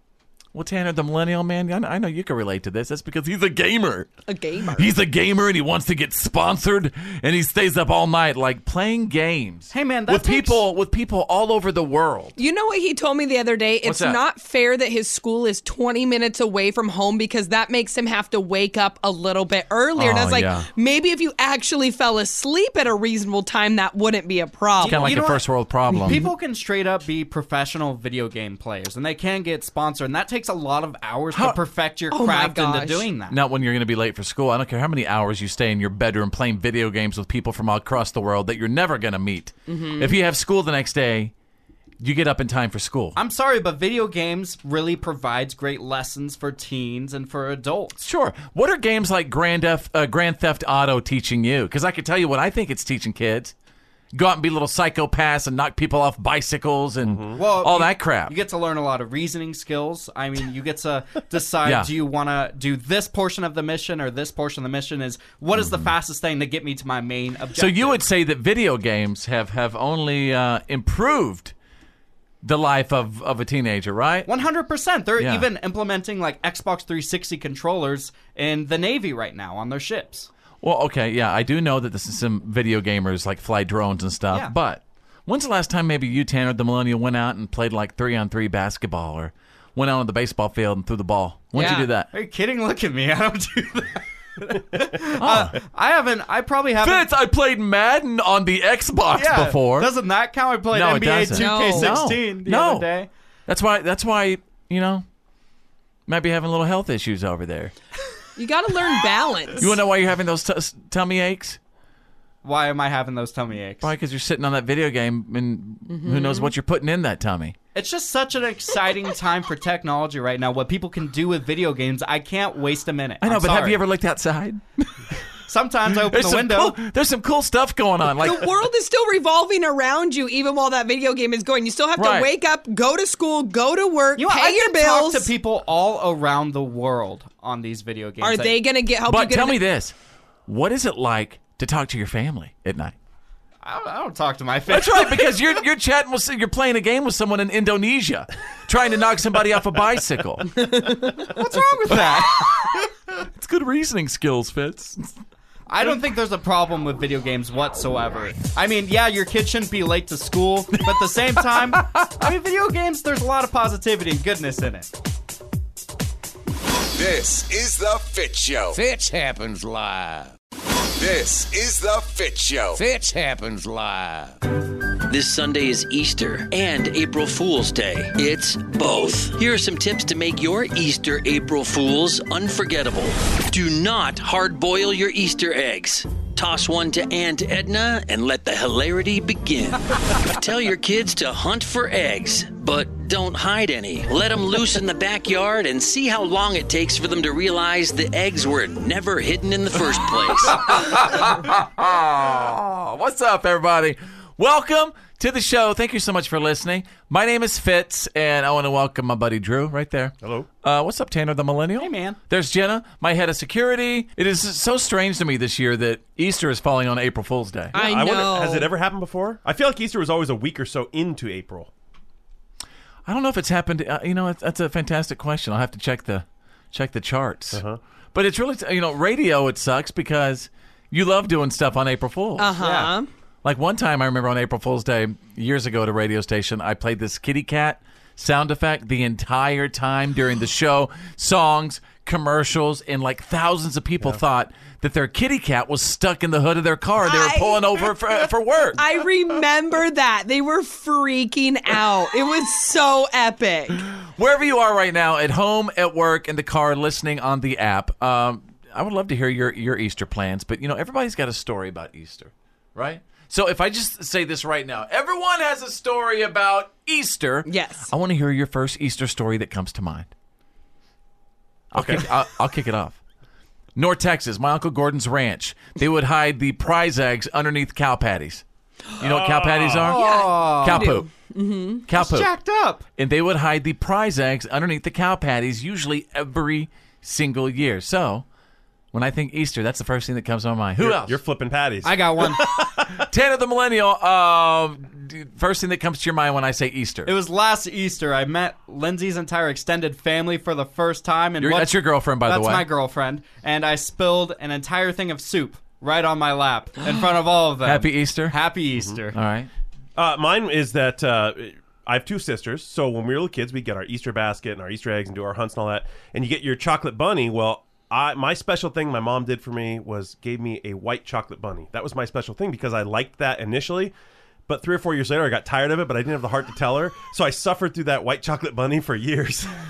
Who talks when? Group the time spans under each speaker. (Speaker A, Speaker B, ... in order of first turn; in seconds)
Speaker A: 0.5-4.1, 4.8-12.3, 13.8-14.2, 20.0-20.7, 24.8-26.3, 31.3-31.6, 33.3-41.3, 42.0-43.2, 48.0-53.5, 54.1-58.3, 65.6-65.9, 67.6-71.5, 72.4-74.3, 75.2-75.5, 80.6-92.1, 95.2-95.6, 96.8-99.9, 100.7-102.9, 103.5-105.0, 106.1-107.7, 109.6-111.6, 113.8-117.6, 123.2-124.9, 126.0-128.5, 132.0-132.3, 139.1-139.9, 140.5-142.9, 144.7-150.6, 151.9-152.5, 153.2-155.1, 160.9-162.1, 200.6-217.8, 223.1-227.6, 228.1-232.6, 233.4-248.8, 254.1-270.1, 271.7-273.0, 273.8-278.4, 279.0-281.1, 281.9-282.3, 283.0-288.2, 288.9-291.2, 293.1-297.1, 301.4-302.7, 307.6-308.4, 309.1-309.5
Speaker B: 4.3-4.9, 12.4-25.3, 32.1-33.1, 39.7-40.1, 91.5-91.9, 101.3-102.0, 108.4-109.8, 115.9-116.5, 128.2-135.3, 138.2-139.6, 150.7-151.1, 217.7-218.7, 232.4-233.1, 247.0-247.9, 248.8-253.8, 267.5-267.9, 279.9-281.8
Speaker C: 9.7-10.6, 24.8-25.4, 26.0-33.4, 43.1-48.0, 57.4-68.0, 74.3-80.3, 91.6-97.1, 99.1-103.1, 112.4-113.9, 117.8-123.8, 125.5-126.8, 134.2-138.6, 143.6-145.3, 151.2-152.5, 155.7-164.9, 211.8-212.2, 232.6-233.0, 279.8-281.0, 281.9-282.8, 291.8-292.5, 297.1-309.2
Speaker D: 57.0-57.4, 210.2-210.5, 217.8-221.7, 227.5-227.8, 271.8-272.0, 279.0-280.0, 290.8-293.0, 310.0-323.9, 324.5-329.5
Speaker E: 166.9-168.8, 171.0-172.8
Speaker F: 168.7-170.3, 172.8-174.4
Speaker G: 175.1-200.7